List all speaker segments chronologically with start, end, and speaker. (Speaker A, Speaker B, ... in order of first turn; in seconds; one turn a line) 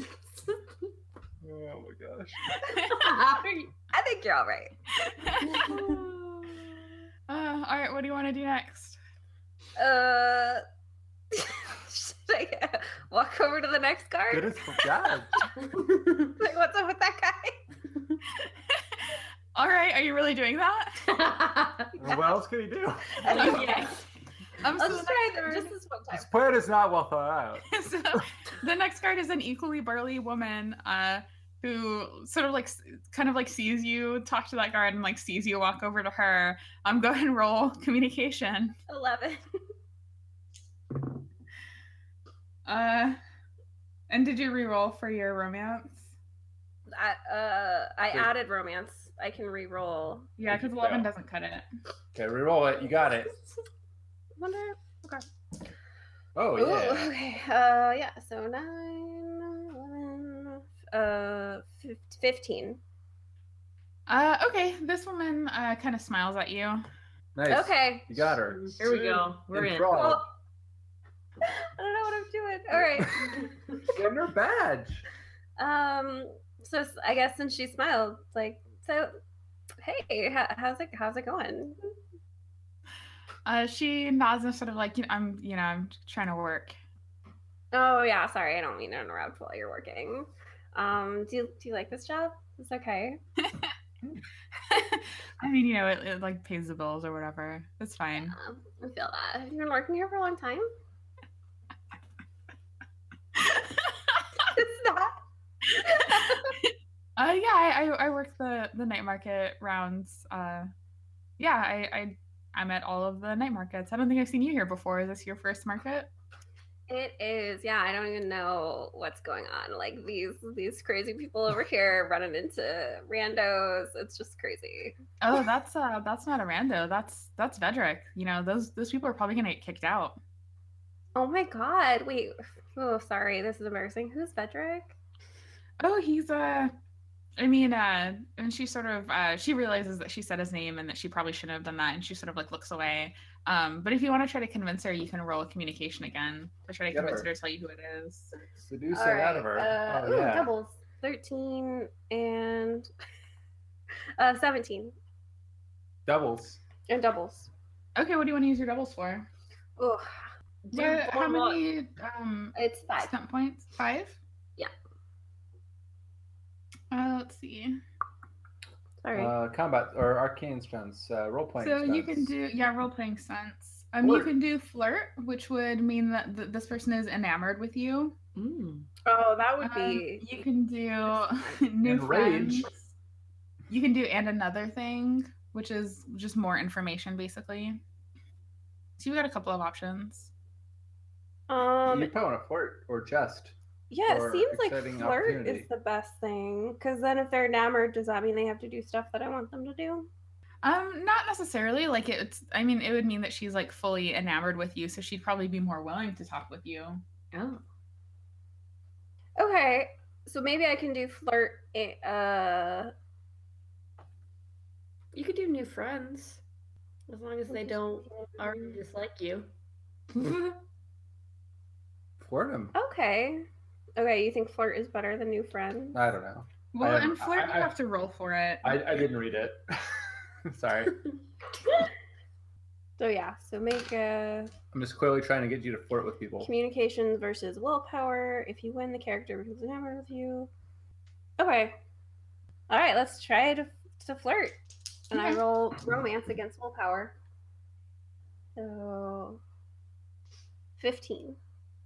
Speaker A: 1.4-2.4
Speaker B: 2.5-3.1
Speaker C: 2.9-4.7
Speaker D: 2.9-3.4
Speaker B: 5.0-5.7
Speaker D: 5.4-6.6
Speaker B: 7.3-9.0
Speaker C: 9.8-10.6
Speaker C: 11.3-15.4
Speaker A: 14.3-15.4
Speaker C: 16.2-17.6
Speaker B: 18.5-21.2
Speaker D: 21.1-21.9
Speaker A: 22.0-23.7
Speaker D: 23.3-24.0
Speaker C: 23.3-23.6
Speaker B: 23.3-23.9
Speaker B: 24.6-25.7
Speaker C: 24.7-26.3
Speaker A: 26.1-28.2
Speaker B: 27.7-38.7
Speaker C: 38.9-39.4
Speaker B: 42.6-43.2
Speaker B: 44.1-46.1
Speaker C: 46.9-50.3
Speaker B: 50.4-51.6
Speaker A: 50.5-51.1
Speaker A: 52.1-53.3
Speaker C: 54.4-55.2
Speaker A: 56.3-57.1
Speaker C: 56.5-62.8
Speaker B: 64.1-66.8
Speaker A: 67.3-70.2
Speaker C: 67.5-68.4
Speaker D: 68.8-70.1
Speaker C: 69.9-70.2
Speaker C: 71.5-73.5
Speaker A: 73.9-75.0
Speaker C: 75.6-79.1
Speaker C: 79.8-81.8
Speaker B: 83.5-86.8
Speaker C: 87.7-93.2
Speaker B: 94.7-98.3
Speaker C: 98.3-100.7
Speaker B: 103.3-104.2
Speaker C: 104.5-105.2
Speaker B: 105.8-110.7
Speaker C: 105.8-106.5
Speaker B: 111.4-116.1
Speaker C: 116.9-125.0
Speaker B: 125.2-130.2
Speaker C: 131.1-134.9
Speaker B: 135.8-136.7
Speaker B: 137.4-148.3
Speaker A: 146.9-147.3
Speaker A: 148.6-150.5
Speaker C: 148.9-152.9
Speaker C: 154.2-154.9
Speaker A: 156.1-156.6
Speaker C: 156.9-157.5
Speaker B: 157.9-159.3
Speaker C: 159.8-160.1
Speaker B: 160.7-164.2
Speaker C: 162.5-163.1
Speaker B: 166.9-167.8
Speaker C: 169.0-169.3
Speaker A: 169.1-172.3
Speaker B: 171.6-178.2
Speaker A: 174.0-174.3
Speaker D: 178.3-178.9
Speaker C: 179.0-180.2
Speaker B: 179.6-182.8
Speaker C: 181.1-181.6
Speaker A: 181.8-182.7
Speaker B: 183.7-187.8
Speaker B: 189.0-190.3
Speaker C: 191.5-192.1
Speaker A: 191.8-193.5
Speaker C: 193.9-200.1
Speaker A: 194.1-195.7
Speaker B: 200.6-207.0
Speaker D: 207.3-207.6
Speaker C: 209.4-212.9
Speaker E: 215.1-216.4
Speaker E: 217.1-219.5
Speaker C: 217.5-218.8
Speaker A: 222.2-222.7
Speaker C: 222.7-223.4
Speaker C: 224.0-226.0
Speaker A: 225.9-227.7
Speaker B: 226.7-228.8
Speaker A: 228.6-229.9
Speaker A: 230.4-231.0
Speaker C: 233.0-234.5
Speaker A: 234.7-236.5
Speaker C: 236.4-240.5
Speaker C: 241.4-241.8
Speaker C: 242.7-244.6
Speaker C: 245.1-247.1
Speaker B: 245.1-245.4
Speaker C: 248.6-249.4
Speaker C: 250.8-251.4